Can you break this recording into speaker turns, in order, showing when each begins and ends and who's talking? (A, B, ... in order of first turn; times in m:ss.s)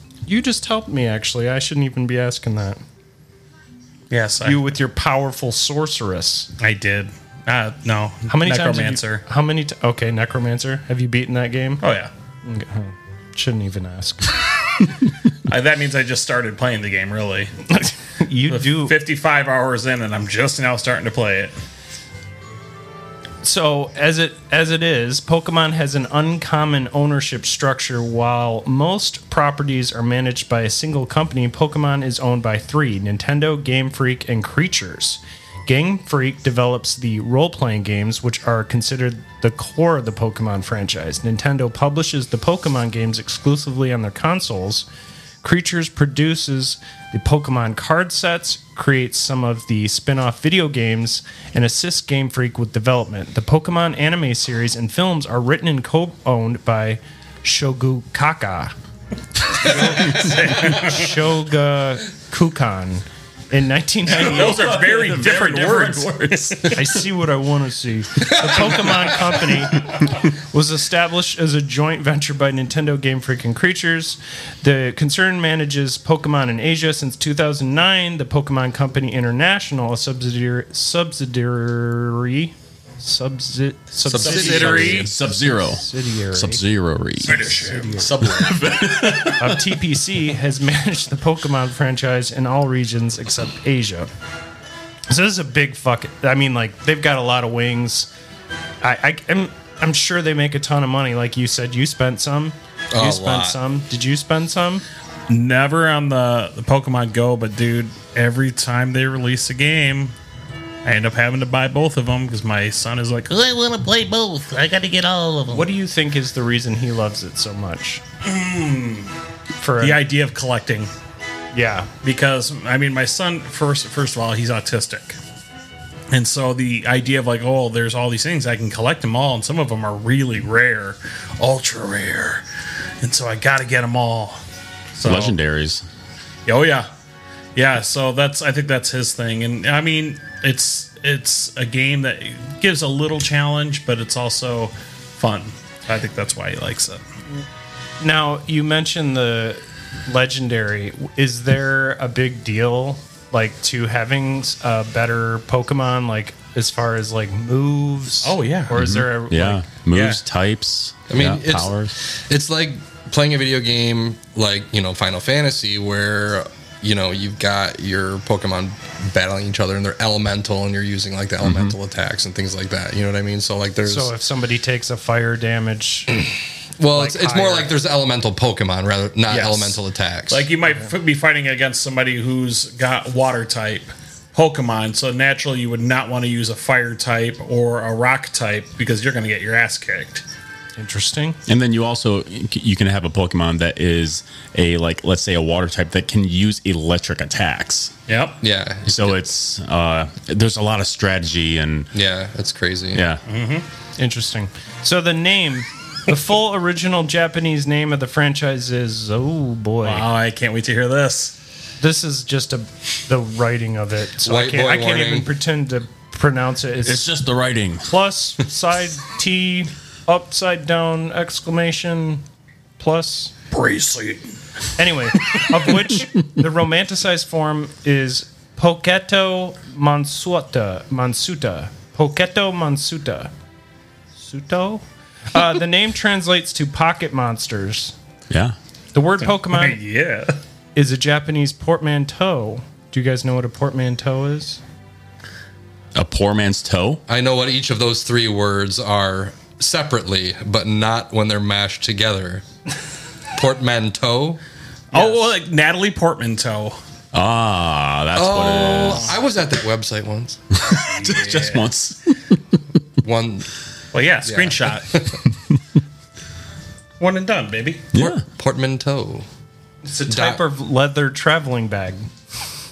0:00.3-0:02.8 A
0:04.1-0:04.7 B
0:04.4-0:06.5 A
0:06.6-0:09.2 B
0:08.3-0:11.8 A
0:11.8-0:12.1 B
0:12.4-0:14.4 A
0:15.4-0:17.5 B
0:17.7-0:18.9 A
0:18.5-0:21.5 B
0:23.4-0:44.8 A
0:45.4-0:58.7 A
0:59.6-1:04.7 A
0:59.6-1:01.0 B
1:04.1-1:07.0 C
1:04.1-1:06.7 B
1:06.7-1:26.6 A
1:08.6-1:09.1 C
1:24.0-1:25.1 D
1:24.2-1:27.5 C
1:24.2-1:25.0 B
1:27.2-1:28.3 A
1:27.2-1:28.7 B
1:28.0-1:29.8 C
1:29.4-1:34.1 A
1:35.1-1:38.1 A
1:38.8-1:44.8 A
1:42.9-1:43.6 D
1:45.3-1:50.1 B
1:50.8-1:53.3 B
1:53.3-1:55.7 E
1:55.5-1:58.0 A
1:58.2-1:59.1 B
1:59.6-2:00.0 A
1:59.8-2:00.9 B
2:01.5-2:01.9 A
2:02.0-2:05.2 B
2:06.1-2:12.4 B
2:13.0-2:14.4 B
2:15.0-2:15.4 B
2:15.0-2:15.8 C
2:16.4-2:16.9 B
2:17.6-2:27.0 B
2:28.0-2:39.6 A
2:38.2-2:38.7 B
2:38.7-2:41.9 C
2:39.9-2:40.2 B
2:41.1-2:54.1 D
2:51.4-2:51.7 C
2:53.8-2:56.3 A
2:56.8-3:00.5 D
2:56.9-2:57.7 A
2:59.3-3:10.2 B
3:10.8-3:11.4 A
3:11.5-3:17.9 C
3:18.1-3:18.4 B
3:18.4-3:19.2 D
3:18.9-3:21.9 C
3:21.9-3:23.0 D
3:22.9-3:23.2 C
3:23.3-3:23.6 B
3:24.0-3:30.0 A
3:29.8-3:31.3 B
3:31.8-3:37.2 A
3:34.2-3:35.3 D
3:36.8-3:37.9 C
3:37.8-3:42.2 A
3:42.8-3:43.3 A
3:43.5-3:44.3 B
3:44.8-3:53.3 A
3:54.2-3:57.9 A
3:58.3-3:58.6 C
3:58.9-3:59.8 A
3:59.4-4:00.4 B
4:00.8-4:04.6 A
4:05.9-4:07.0 C
4:07.1-4:12.4 D
4:13.3-4:14.4 D
4:14.9-4:16.8 B
4:17.1-4:19.1 C
4:18.1-4:20.4 D
4:18.8-4:19.1 B
4:20.6-4:22.4 C
4:20.7-4:21.6 B
4:23.0-4:23.5 D
4:23.9-4:24.9 B
4:24.2-4:25.2 D
4:27.0-4:27.9 B
4:27.9-4:28.2 C
4:28.0-4:29.2 D
4:29.8-4:32.1 A
4:30.1-4:30.4 D